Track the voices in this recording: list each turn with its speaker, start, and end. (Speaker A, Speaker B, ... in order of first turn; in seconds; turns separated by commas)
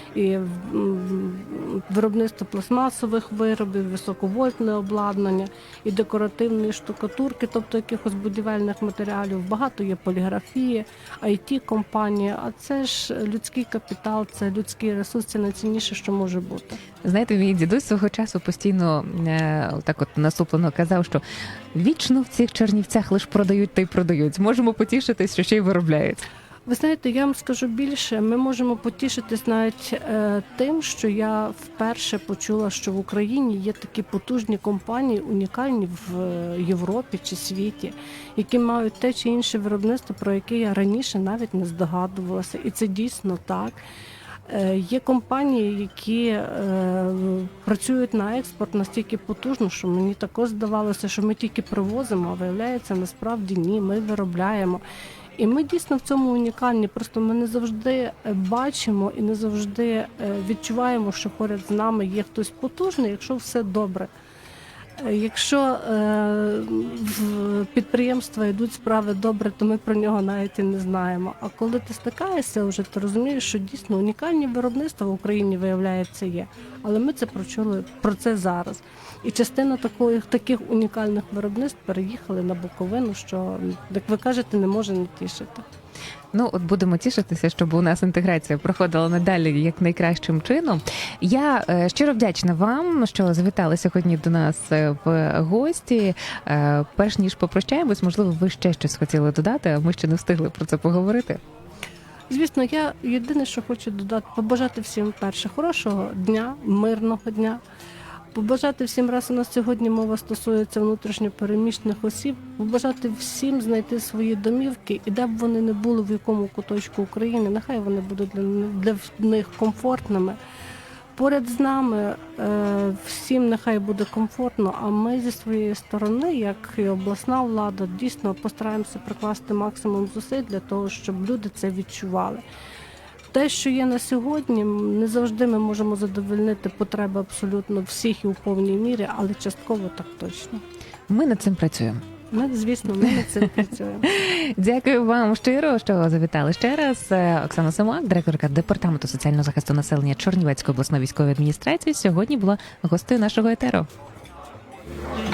Speaker A: 0.1-16.8, Speaker B: 17.0-21.2, Speaker B: 21.7-26.2, Speaker A: 26.7-43.8, Speaker A: 44.5-54.8, Speaker A: 55.4-64.1, Speaker A: 65.0-85.7, Speaker B: 86.3-101.4, Speaker A: 102.3-107.6, Speaker A: 108.3-120.4, Speaker A: 121.1-132.4, Speaker A: 133.3-140.6, Speaker B: 141.1-142.0, Speaker A: 142.3-144.1, Speaker B: 144.1-153.9